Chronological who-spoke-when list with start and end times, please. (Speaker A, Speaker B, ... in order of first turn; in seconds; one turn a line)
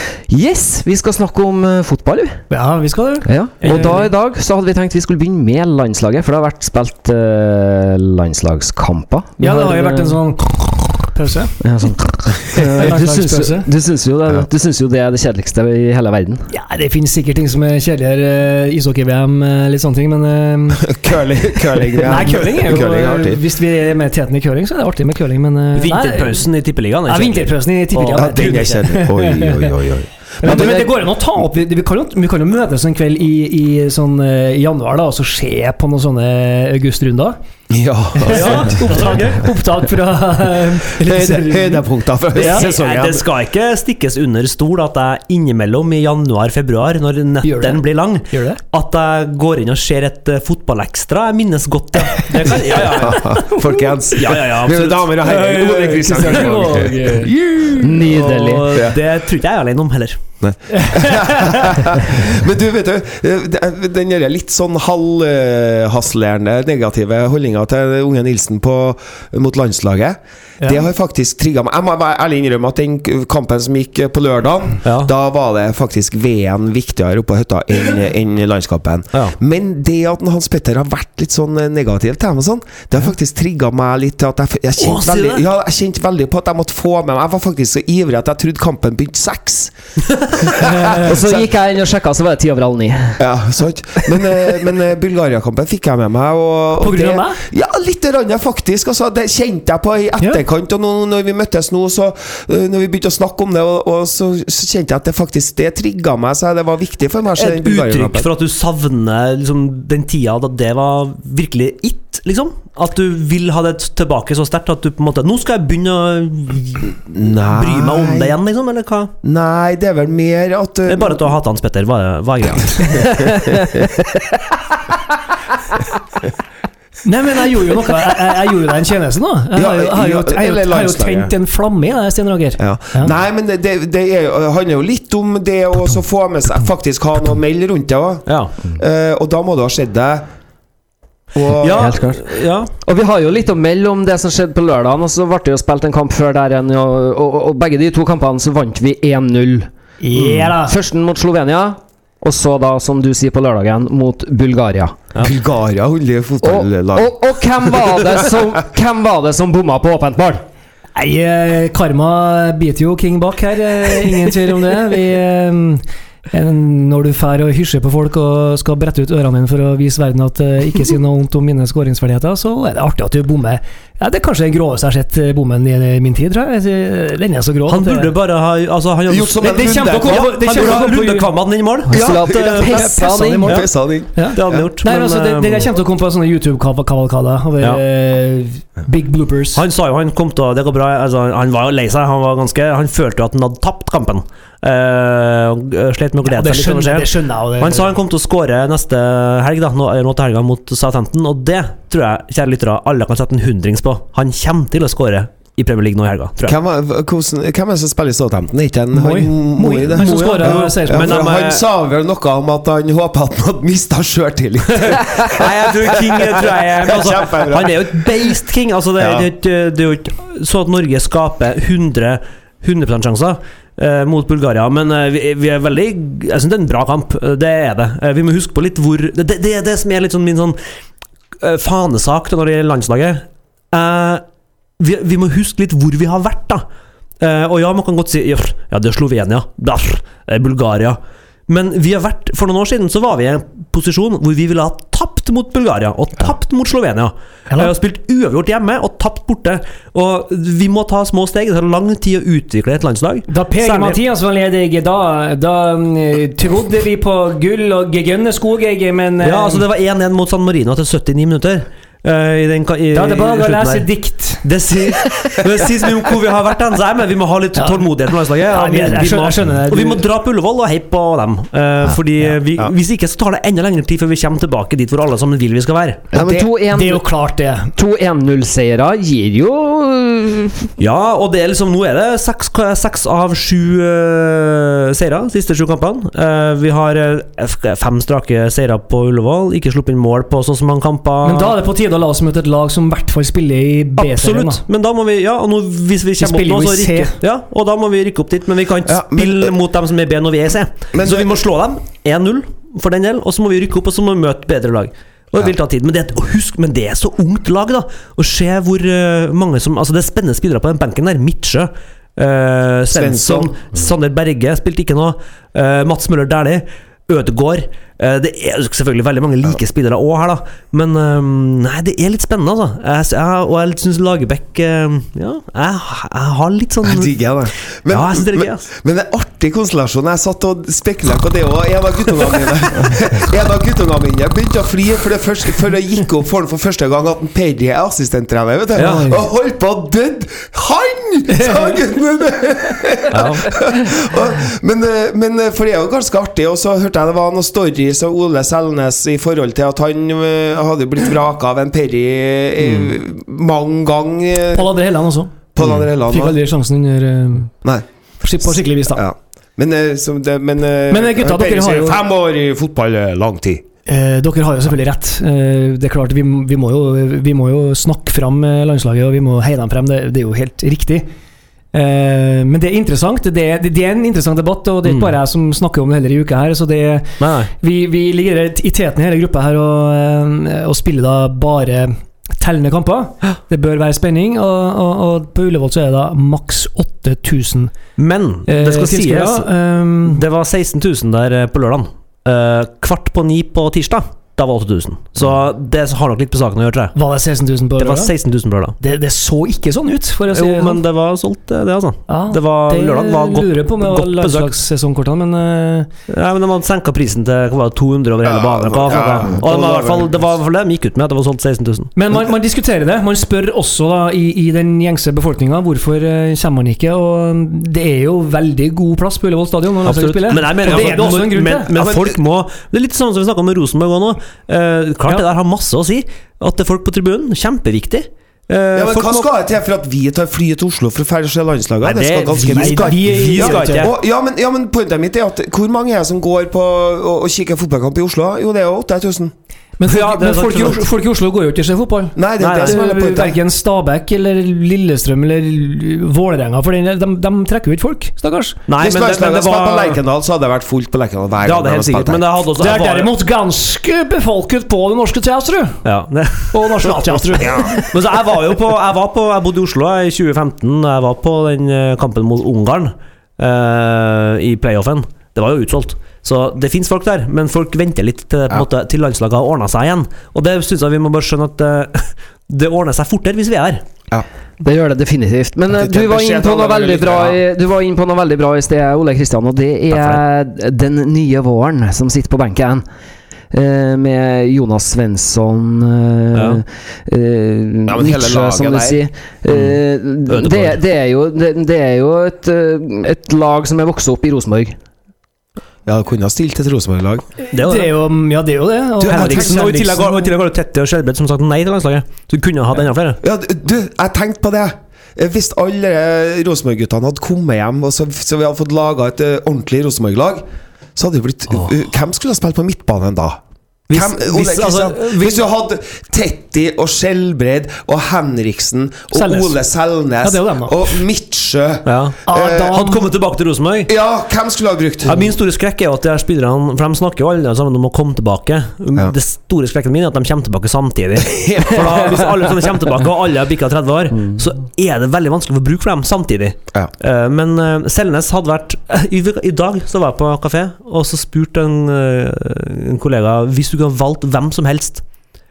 Speaker A: 0.3-2.4
Speaker B: 2.5-4.0
Speaker A: 3.2-10.2
Speaker C: 3.6-4.0
Speaker B: 9.4-11.5
Speaker A: 11.6-16.4
Speaker B: 12.7-13.7
Speaker B: 16.5-20.9
Speaker D: 20.8-23.4
Speaker B: 22.0-26.4
Speaker C: 25.7-28.8
Speaker B: 27.1-29.7
Speaker D: 28.1-30.1
Speaker B: 30.4-37.4
Speaker A: 30.4-31.0
Speaker D: 37.7-38.7
Speaker B: 38.1-41.8
Speaker C: 38.2-39.4
Speaker D: 41.0-43.2
Speaker C: 42.3-53.4
Speaker B: 42.4-42.6
Speaker B: 47.4-48.6
Speaker D: 52.4-58.2
Speaker C: 54.1-56.7
Speaker B: 55.4-57.3
Speaker A: 57.8-58.8
Speaker C: 58.0-60.2
Speaker D: 58.7-59.0
Speaker D: 60.4-89.7
Speaker B: 60.8-61.6
Speaker C: 74.8-75.1
Speaker C: 84.8-85.4
Speaker D: 90.3-91.5
Speaker B: 90.6-91.1
Speaker A: 90.9-93.2
Speaker D: 93.2-108.3
Speaker B: 96.8-97.4
Speaker C: 107.4-119.1
Speaker D: 117.1-118.4
Speaker D: 119.2-121.3
Speaker C: 120.9-123.5
Speaker D: 122.8-123.9
Speaker B: 127.0-133.1
Speaker D: 129.5-131.3
Speaker D: 132.6-140.3
Speaker C: 138.3-138.5
Speaker D: 141.3-142.0
Speaker C: 141.6-142.7
Speaker A: 141.7-155.0
Speaker B: 150.0-150.8
Speaker D: 155.2-158.2
Speaker A: 156.4-160.4
Speaker B: 160.9-178.1
Speaker C: 177.7-182.8
Speaker D: 179.1-180.8
Speaker B: 179.4-181.3
Speaker D: 181.9-184.7
Speaker A: 181.9-183.6
Speaker B: 182.7-189.6
Speaker C: 184.3-185.7
Speaker C: 189.5-206.6
Speaker B: 196.2-197.9
Speaker D: 206.4-218.3
Speaker B: 208.9-211.1
Speaker C: 209.9-211.6
Speaker C: 214.8-230.6
Speaker D: 219.0-219.3
Speaker C: 231.4-234.2
Speaker C: 234.8-236.6
Speaker C: 237.2-254.0
Speaker B: 253.3-259.6
Speaker C: 259.2-263.9
Speaker B: 262.9-264.4
Speaker C: 264.4-276.0
Speaker B: 267.6-270.0
Speaker D: 276.1-276.6
Speaker A: 276.1-277.1
Speaker B: 276.7-277.7
Speaker A: 277.7-280.7
Speaker C: 280.8-291.6
Speaker B: 291.2-294.6
Speaker C: 294.0-327.1
Speaker B: 296.2-297.2
Speaker D: 298.8-299.6
Speaker D: 300.9-301.4
Speaker D: 312.9-313.6
Speaker D: 326.8-354.7
Speaker C: 327.9-328.6
Speaker C: 338.8-339.1
Speaker B: 338.8-339.2
Speaker B: 341.3-341.8
Speaker C: 343.1-343.5
Speaker C: 352.6-352.9
Speaker B: 354.5-355.4
Speaker D: 355.5-356.4
Speaker B: 356.0-357.5
Speaker B: 358.2-359.0
Speaker D: 358.9-363.6
Speaker B: 360.9-362.0
Speaker B: 363.9-371.1
Speaker B: 371.7-387.7
Speaker C: 374.8-375.1
Speaker C: 377.2-377.5
Speaker C: 388.0-389.5
Speaker B: 388.5-390.2
Speaker C: 390.0-396.9
Speaker B: 396.9-398.1
Speaker C: 397.8-398.8
Speaker B: 398.8-400.8
Speaker C: 400.3-404.5
Speaker B: 402.1-405.9
Speaker C: 406.1-411.9
Speaker D: 408.2-410.3
Speaker B: 411.9-421.7
Speaker C: 419.8-429.3
Speaker D: 420.7-421.1
Speaker D: 421.7-422.2
Speaker D: 428.7-439.3
Speaker C: 431.8-433.9
Speaker B: 432.5-433.9
Speaker B: 439.8-448.6
Speaker C: 439.8-440.8
Speaker D: 442.1-443.4
Speaker C: 442.4-442.8
Speaker C: 448.7-450.0
Speaker D: 448.8-452.2
Speaker C: 451.4-453.1
Speaker B: 452.6-455.8
Speaker C: 455.8-473.8
Speaker B: 456.5-457.7
Speaker D: 457.4-457.8
Speaker A: 474.6-482.8
Speaker D: 475.7-477.4
Speaker C: 479.9-480.2
Speaker A: 483.5-494.8
Speaker C: 486.3-486.6
Speaker D: 487.9-489.0
Speaker C: 489.5-490.8
Speaker D: 495.9-497.2
Speaker B: 497.5-500.3
Speaker C: 497.5-497.9
Speaker D: 499.0-499.6
Speaker C: 499.1-503.2
Speaker D: 503.2-510.4
Speaker D: 510.9-522.8
Speaker C: 513.9-515.4
Speaker B: 519.1-519.6
Speaker B: 520.2-521.0
Speaker C: 521.9-523.9
Speaker B: 522.3-523.0
Speaker D: 523.9-525.3
Speaker C: 525.0-545.0
Speaker D: 531.3-532.3